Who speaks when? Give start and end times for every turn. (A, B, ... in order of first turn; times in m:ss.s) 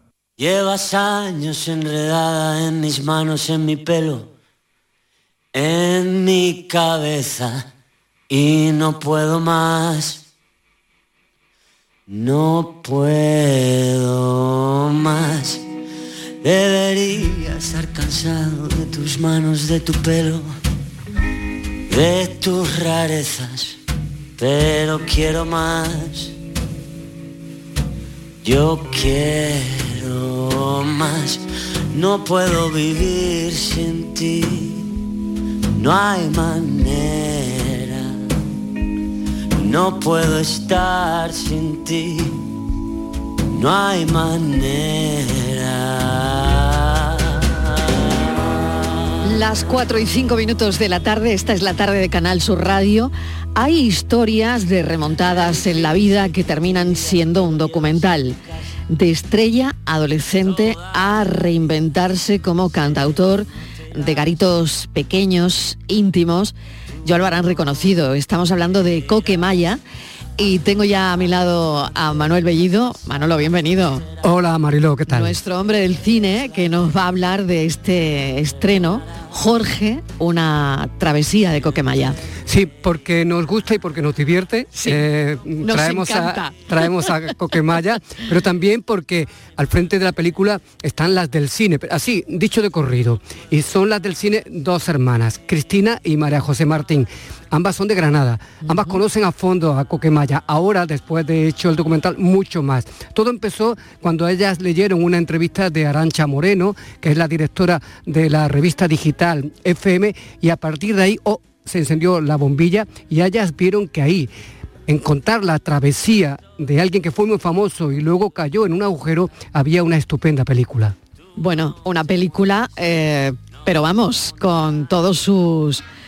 0:00.4-0:04.3 A
0:05.5-0:07.7 A
0:08.3-0:10.2 A
0:12.1-0:15.6 A
0:16.4-0:20.5 A
0:21.9-0:23.8 A
0:24.4-0:26.4 A
0:28.4-0:34.9 A
0:35.8-0:38.1 A
0:39.6-0:42.4 A
0:43.5-0:47.0 A
0:49.2-1:09.8 B
1:10.4-1:14.1 B
1:14.2-1:15.4 C
1:15.1-1:22.2 B
1:22.5-1:54.3 C
1:24.8-1:25.0 B
1:25.6-1:27.1 B
1:38.6-1:39.0 B
1:54.9-2:01.0 C
2:01.4-2:05.8 B